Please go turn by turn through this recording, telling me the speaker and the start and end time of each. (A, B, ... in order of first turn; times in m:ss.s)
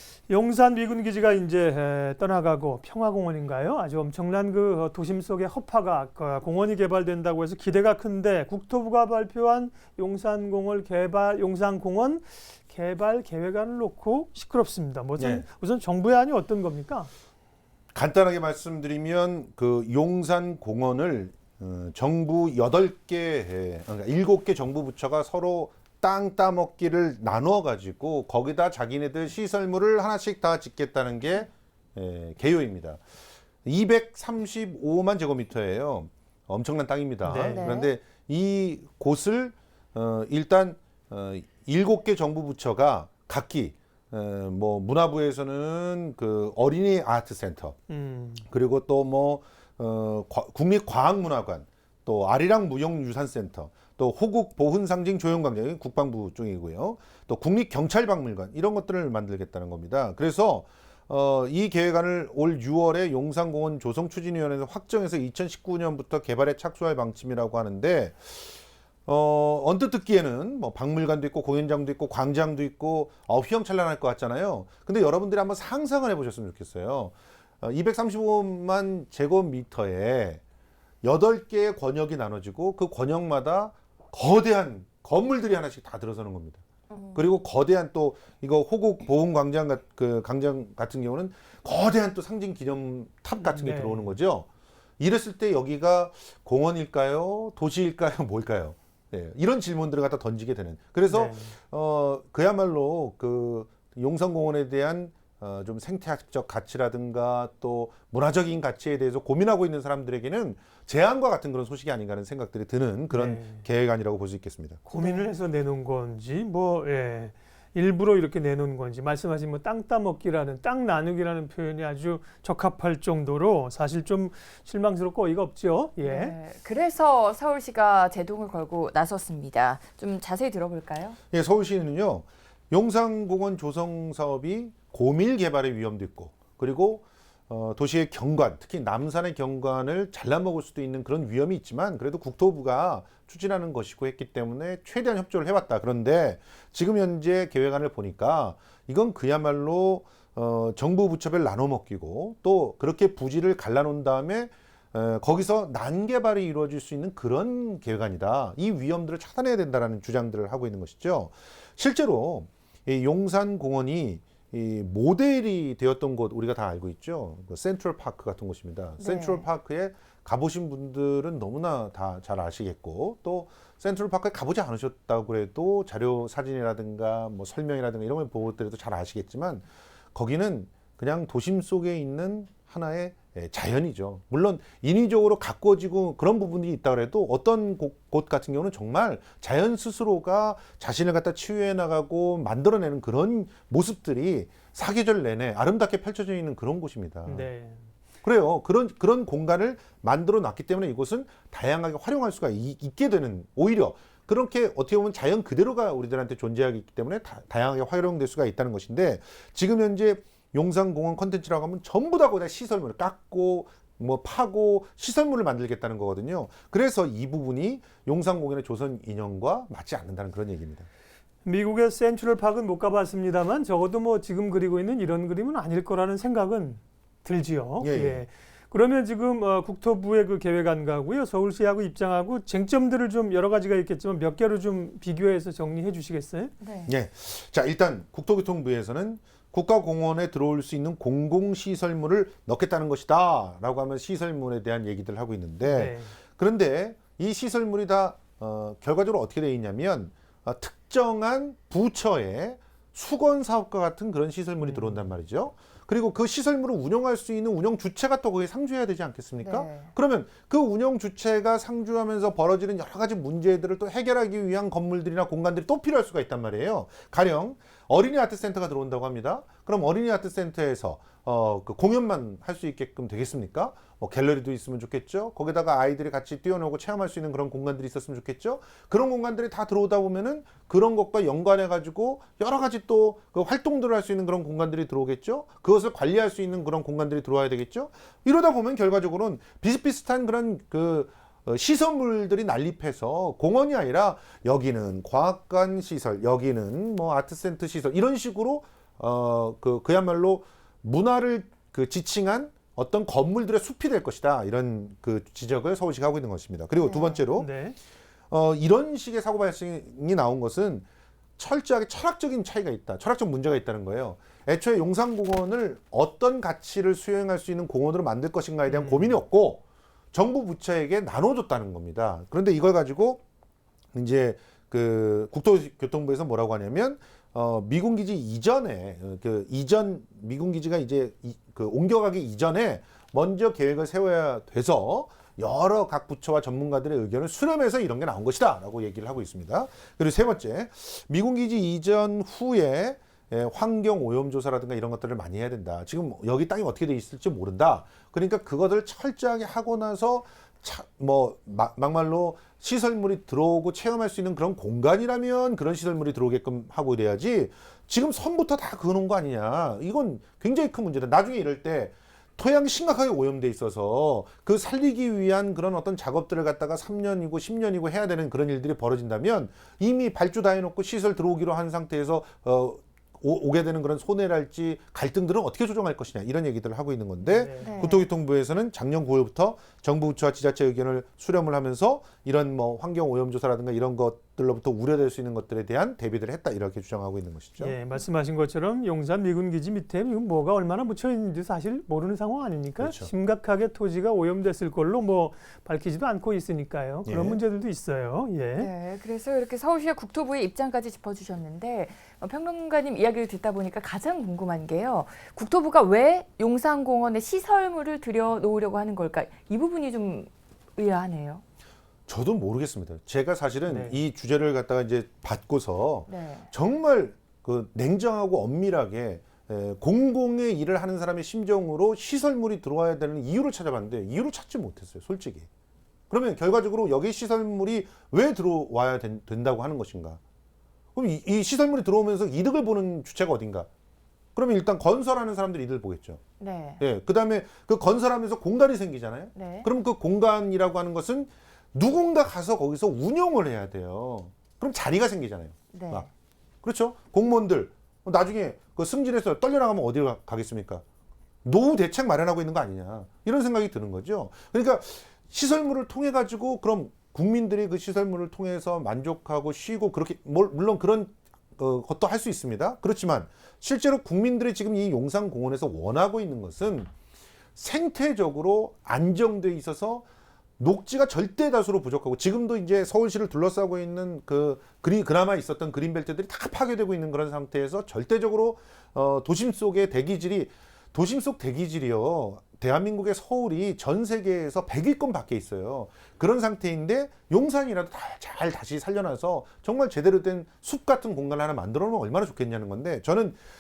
0:00.3-0:17.1 A
0:15.2-0:15.4 B
0:17.9-0:33.0 B
0:33.6-0:47.8 B
0:37.2-0:37.7 A
0:37.4-0:37.9 C
0:47.9-0:48.4 A
0:48.4-1:20.4 B
1:21.0-1:34.5 B
1:26.9-1:27.2 C
1:33.4-1:34.2 A
1:35.0-1:54.8 B
1:41.1-1:41.5 A
1:53.1-1:53.6 A
1:54.9-2:06.4 A
1:54.9-1:55.3 C
2:06.0-2:11.2 C
2:11.3-3:17.5 B
2:49.0-2:49.5 C
3:17.3-3:17.8 A
3:18.2-3:40.9 B
3:41.4-3:56.5 A
3:47.8-3:48.2 B
3:56.6-3:56.9 C
3:56.9-5:07.5 B
4:05.6-4:06.1 A
4:19.4-4:19.9 C
5:06.8-5:07.2 C
5:07.4-5:07.8 A
5:08.3-5:10.9 B
5:11.4-5:23.2 B
5:18.7-5:19.2 A
5:23.9-6:27.8 B
6:17.2-6:17.7 A
6:17.6-6:18.1 C
6:27.6-6:38.7 A
6:32.8-6:33.1 B
6:37.1-6:37.4 B
6:38.6-6:51.4 C
6:52.1-7:05.5 B
6:53.7-6:54.0 A
6:56.1-6:56.5 C
7:06.1-7:10.2 B
7:11.0-7:13.7 B
7:14.4-7:16.2 B
7:16.4-7:16.8 C
7:16.8-7:26.1 B
7:19.4-7:19.7 C
7:25.7-7:26.1 C
7:26.6-7:30.8 B
7:31.4-7:46.9 B
7:47.6-7:50.1 B
7:50.6-8:13.4 B